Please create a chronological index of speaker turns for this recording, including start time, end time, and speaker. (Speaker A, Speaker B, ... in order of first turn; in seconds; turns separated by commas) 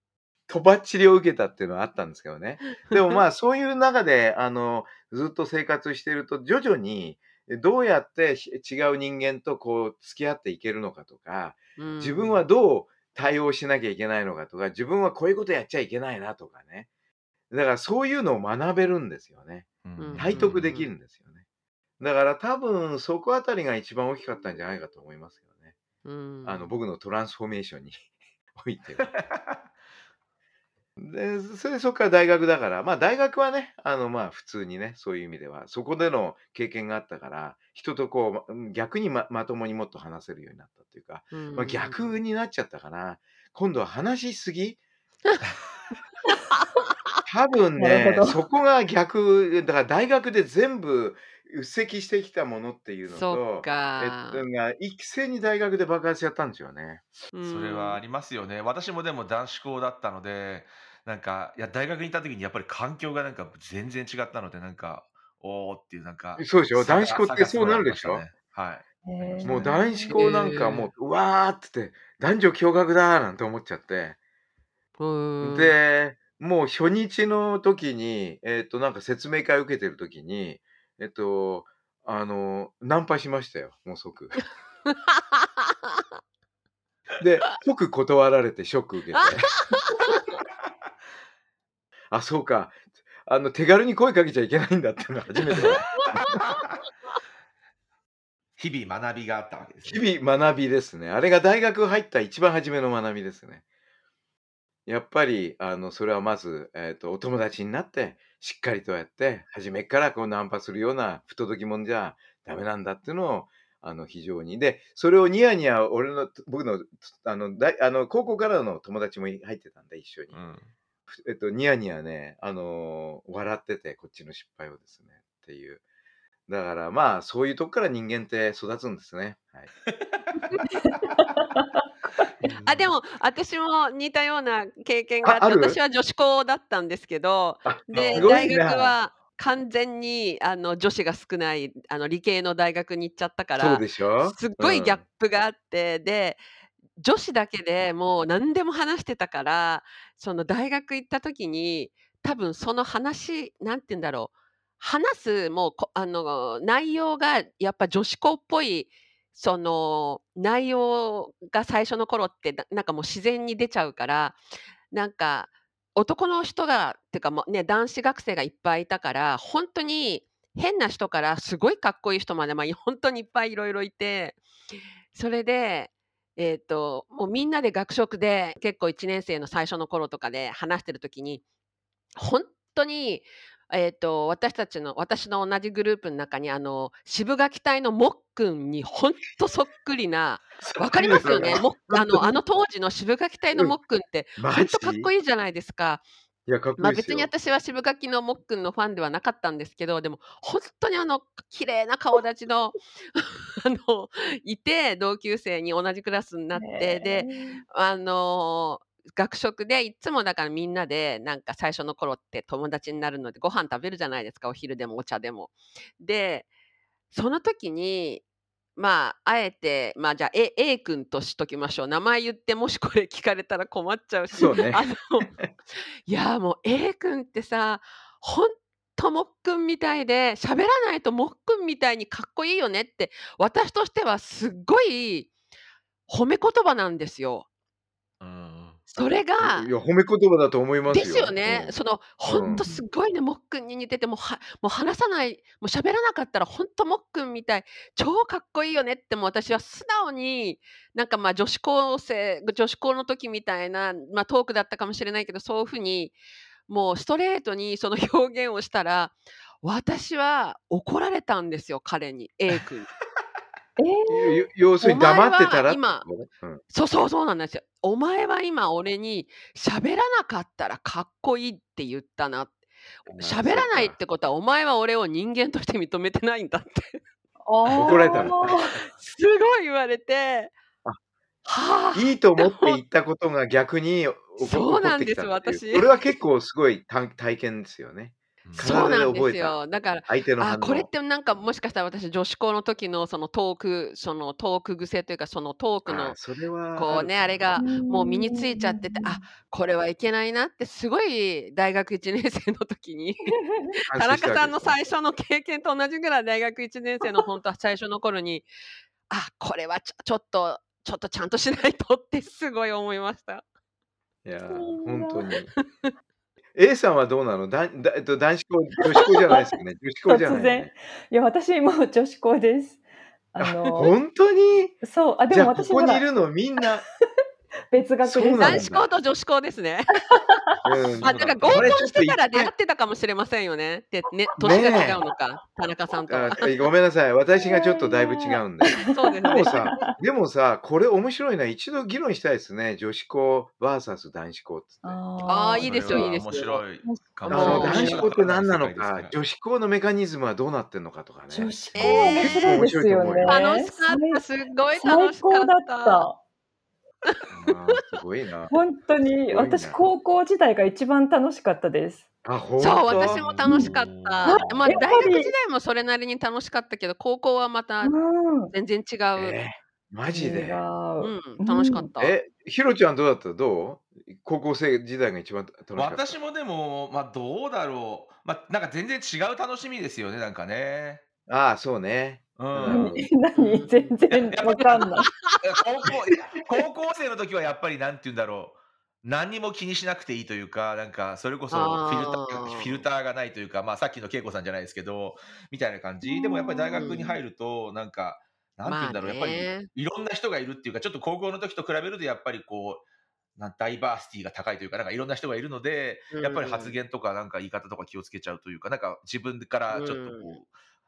Speaker A: 0.5-16.9, Speaker B: 11.8-12.4, Speaker A: 17.5-21.4, Speaker C: 19.8-20.7, Speaker B: 20.0-20.9, Speaker A: 22.0-25.7, Speaker B: 26.0-26.7, Speaker A: 26.4-28.0, Speaker A: 28.5-29.1, Speaker C: 29.0-29.6, Speaker A: 31.0-44.8, Speaker B: 41.3-42.1, Speaker B: 46.3-46.6, Speaker A: 47.2-57.1, Speaker D: 47.8-48.4, Speaker B: 53.1-54.4, Speaker B: 57.3-58.0, Speaker C: 57.4-69.6, Speaker A: 66.4-68.2, Speaker D: 69.0-70.3, Speaker A: 69.4-74.2, Speaker B: 70.1-70.9, Speaker B: 75.0-75.8, Speaker A: 75.4-84.4, Speaker B: 84.9-85.2, Speaker A: 87.2-89.6, Speaker B: 89.2-90.2, Speaker A: 92.1-96.4, Speaker B: 96.0-96.4, Speaker C: 98.6-100.0, Speaker A: 99.8-103.6, Speaker A: 104.9-120.3, Speaker C: 120.3-120.7, Speaker A: 121.1-125.8, Speaker A: 126.5-129.7, Speaker C: 129.9-131.2, Speaker C: 132.4-132.9, Speaker B: 132.6-146.4, Speaker A: 135.2-135.8, Speaker A: 137.7-138.9, Speaker C: 137.9-138.5, Speaker A: 143.6-145.0, Speaker B: 147.0-164.4, Speaker B: 164.9-174.4, Speaker B: 175.1-181.4, Speaker B: 182.1-196.0, Speaker A: 190.6-192.3, Speaker A: 194.4-195.1, Speaker A: 196.4-197.3, Speaker B: 196.8-216.5, Speaker D: 206.5-207.6, Speaker B: 217.1-218.2, Speaker B: 218.8-225.3, Speaker A: 224.3-224.8, Speaker B: 226.1-235.3, Speaker B: 236.1-237.5, Speaker C: 238.2-238.8, Speaker B: 238.9-239.7, Speaker A: 239.0-242.6, Speaker B: 240.9-256.1, Speaker D: 242.6-242.8, Speaker B: 256.7-262.9, Speaker D: 263.8-264.4, Speaker A: 264.1-266.6, Speaker B: 264.8-266.1, Speaker B: 266.7-272.6, Speaker A: 273.1-274.0, Speaker B: 273.2-280.5, Speaker D: 277.6-278.8, Speaker A: 277.7-278.6, Speaker B: 281.4-282.8, Speaker A: 281.9-290.9, Speaker B: 284.4-286.1, Speaker C: 288.4-288.9, Speaker B: 288.6-296.2, Speaker A: 295.9-297.6, Speaker B: 296.7-308.5, Speaker D: 297.6-299.2, Speaker D: 303.3-303.6, Speaker A: 303.9-304.8, Speaker B: 309.1-313.4, Speaker A: 314.2-315.5, Speaker D: 314.5-315.3, Speaker A: 316.5-320.7, Speaker D: 319.0-319.4, Speaker D: 320.1-322.8, Speaker D: 323.3-323.9, Speaker A: 323.5-324.8, Speaker D: 324.8-326.1, Speaker A: 325.3-326.8, Speaker D: 327.7-328.7, Speaker A: 328.0-328.9, Speaker B: 328.4-330.0, Speaker D: 330.1-330.4, Speaker A: 330.6-332.5, Speaker C: 331.0-331.8, Speaker B: 331.0-336.4, Speaker A: 334.4-335.0, Speaker A: 336.1-345.0, Speaker D: 337.4-339.9, Speaker B: 338.8-339.7, Speaker D: 344.8-346.1, Speaker B: 345.2-346.6, Speaker C: 345.6-349.2, Speaker D: 346.8-348.0, Speaker B: 347.2-348.1, Speaker A: 347.3-353.4, Speaker D: 351.3-354.2, Speaker B: 351.7-352.6, Speaker B: 353.2-356.1, Speaker D: 354.7-356.2, Speaker A: 357.3-358.5, Speaker D: 358.5-362.1, Speaker A: 359.3-359.8, Speaker A: 362.2-363.2, Speaker B: 362.6-367.9, Speaker C: 362.9-364.5, Speaker D: 364.2-365.3, Speaker D: 367.8-368.5, Speaker B: 368.5-369.4, Speaker A: 369.1-370.6, Speaker D: 370.1-371.9, Speaker B: 371.0-372.2, Speaker A: 372.0-376.1, Speaker C: 375.7-381.0, Speaker A: 381.3-383.1, Speaker C: 382.4-383.1, Speaker D: 382.6-385.1, Speaker B: 383.3-383.9, Speaker C: 384.1-384.9, Speaker B: 385.0-385.3, Speaker C: 385.4-402.8, Speaker B: 391.5-392.8, Speaker D: 396.1-396.9, Speaker B: 396.8-397.2, Speaker B: 398.6-399.7, Speaker C: 403.4-410.5, Speaker B: 406.1-406.8, Speaker B: 409.7-410.3